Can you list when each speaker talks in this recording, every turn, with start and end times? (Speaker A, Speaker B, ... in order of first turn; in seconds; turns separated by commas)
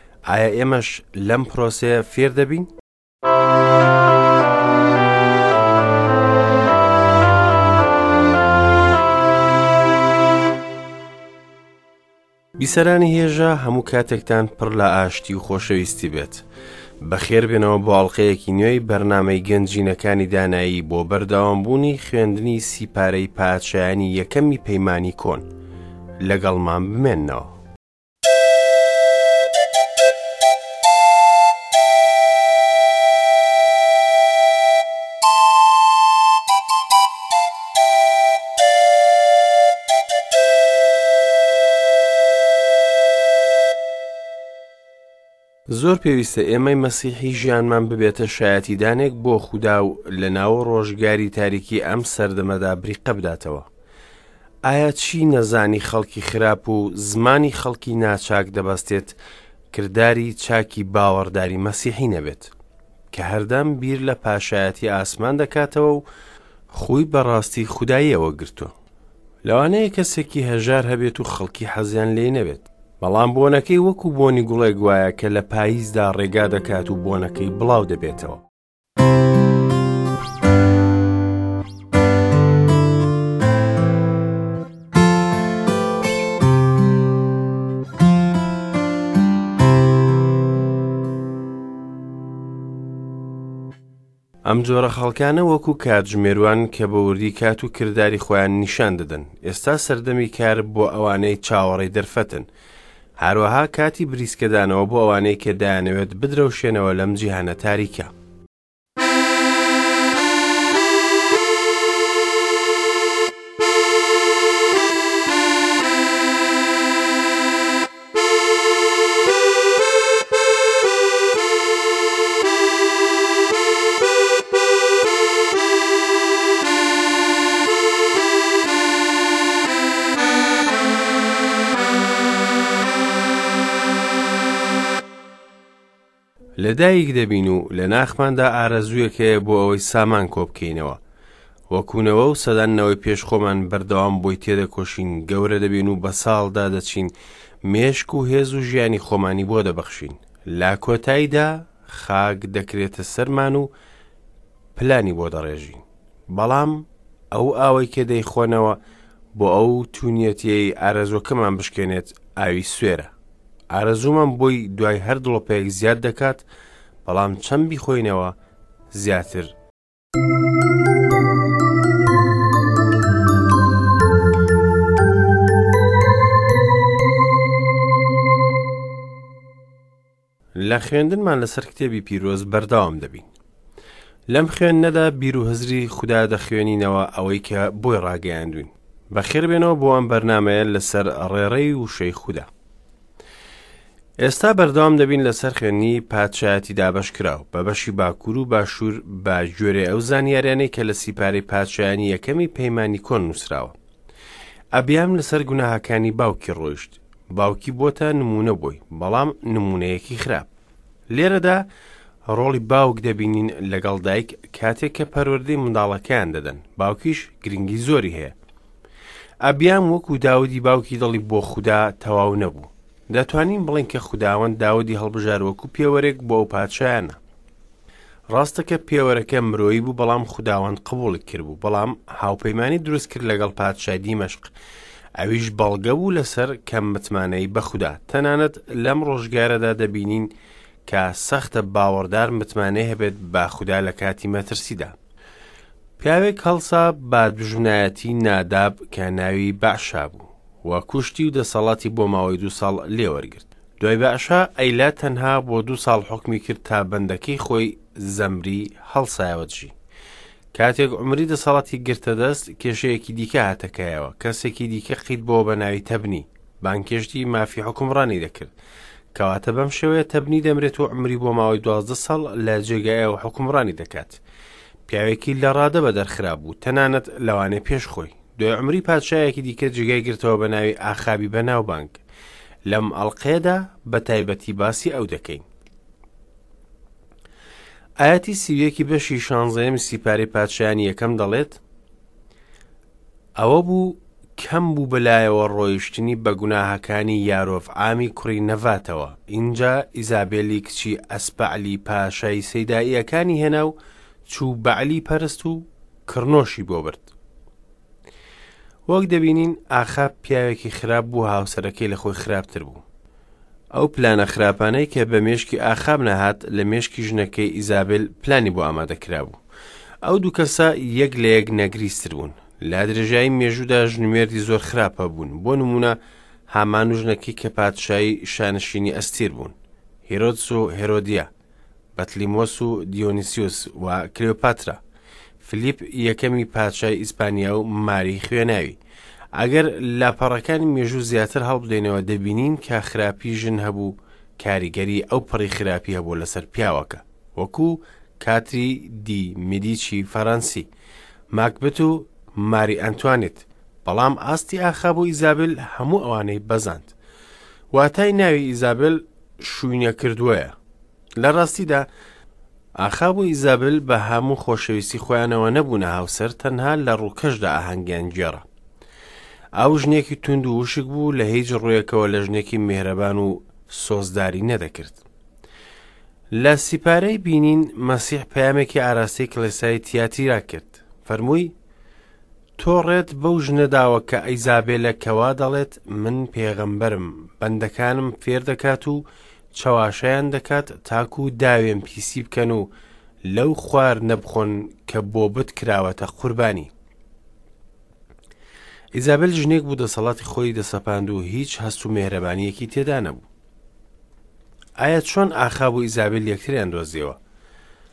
Speaker A: 0.3-2.7, Speaker A: 12.6-16.4, Speaker A: 17.0-25.5, Speaker A: 26.2-27.6, Speaker A: 45.7-53.7, Speaker A: 54.6-59.2, Speaker A: 59.7-62.5, Speaker A: 63.1-66.0, Speaker A: 66.7-68.7, Speaker A: 69.4-78.4, Speaker A: 94.4-102.5, Speaker A: 103.2-108.1, Speaker A: 136.6-141.0, Speaker A: 141.7-147.1, Speaker A: 147.6-153.7, Speaker A: 154.7-158.8, Speaker A: 159.3-163.1, Speaker A: 163.7-166.5, Speaker A: 167.0-168.3, Speaker A: 168.9-169.5, Speaker A: 180.6-183.3, Speaker A: 184.3-192.5, Speaker A: 194.2-203.8, Speaker A: 204.7-210.5, Speaker A: 211.1-211.7, Speaker A: 212.2-218.3, Speaker A: 219.4-227.2, Speaker A: 228.3-234.5, Speaker A: 235.2-240.3, Speaker A: 240.8-244.9, Speaker A: 246.0-259.7, Speaker A: 260.5-268.5, Speaker A: 269.1-274.2, Speaker A: 274.9-282.0, Speaker A: 282.7-285.4, Speaker A: 288.0-291.6, Speaker A: 293.4-303.7, Speaker A: 304.2-307.1, Speaker A: 308.9-312.8, Speaker A: 313.7-319.4, Speaker A: 320.0-326.0, Speaker A: 326.5-329.5, Speaker A: 330.1-331.3, Speaker A: 331.9-334.8, Speaker A: 335.4-338.8, Speaker A: 339.3-350.7, Speaker A: 351.3-356.9, Speaker A: 357.7-360.5, Speaker A: 361.2-361.9, Speaker A: 362.8-368.4, Speaker A: 369.6-375.0, Speaker A: 376.3-381.5, Speaker A: 382.6-392.7, Speaker A: 393.3-396.7, Speaker A: 398.9-403.3, Speaker A: 404.8-407.2